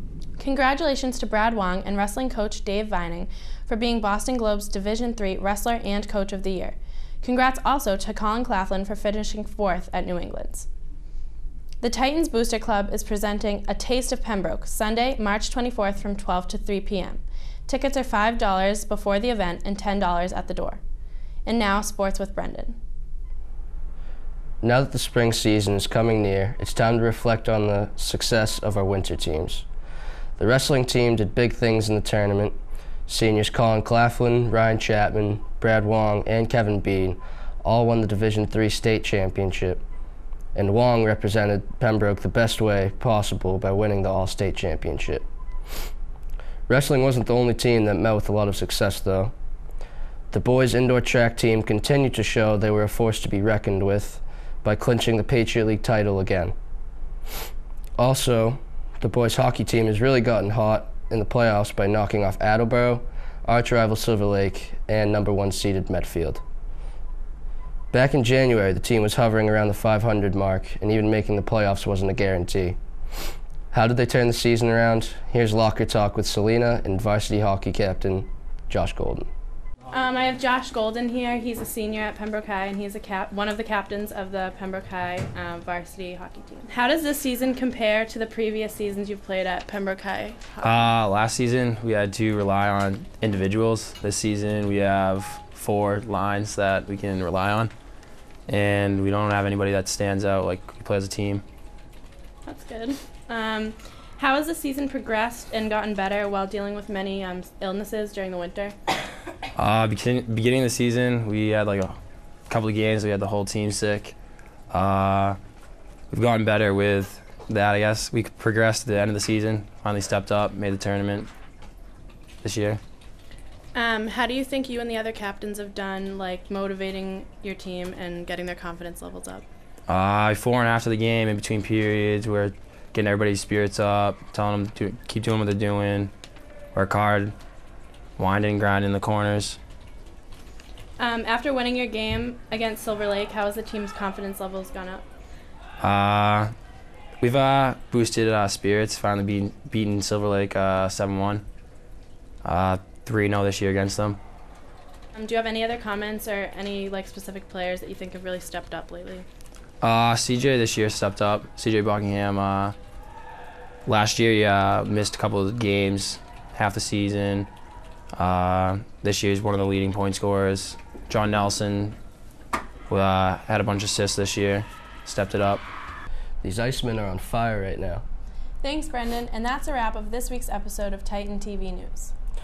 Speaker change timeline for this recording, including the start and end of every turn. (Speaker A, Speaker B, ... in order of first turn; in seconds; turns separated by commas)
Speaker A: 0.4-10.7, Speaker A: 11.8-20.8, Speaker A: 21.5-22.8, Speaker B: 24.6-29.7, Speaker B: 30.4-39.8, Speaker B: 40.5-45.2, Speaker B: 46.7-49.3, Speaker B: 50.3-56.5, Speaker B: 58.0-66.4, Speaker B: 67.9-72.8, Speaker B: 73.7-79.3, Speaker A: 79.9-90.8, Speaker C: 90.6-97.7, Speaker C: 98.5-101.4, Speaker A: 102.5-108.8, Speaker C: 109.6-112.0, Speaker C: 112.5-114.2, Speaker C: 114.7-115.4, Speaker C: 116.1-121.3, Speaker C: 122.4-122.8, Speaker A: 123.7-129.4, Speaker C: 129.9-136.1, Speaker C: 136.8-137.3, Speaker C: 138.2-139.6, Speaker A: 141.0-145.1, Speaker C: 145.8-146.5, Speaker C: 147.2-151.4, Speaker C: 152.4-154.2, Speaker A: 155.1-159.3, Speaker C: 159.8-162.7, Speaker C: 163.9-167.5, Speaker C: 168.1-172.0, Speaker C: 172.9-175.6, Speaker B: 176.4-178.0, Speaker A: 178.6-182.1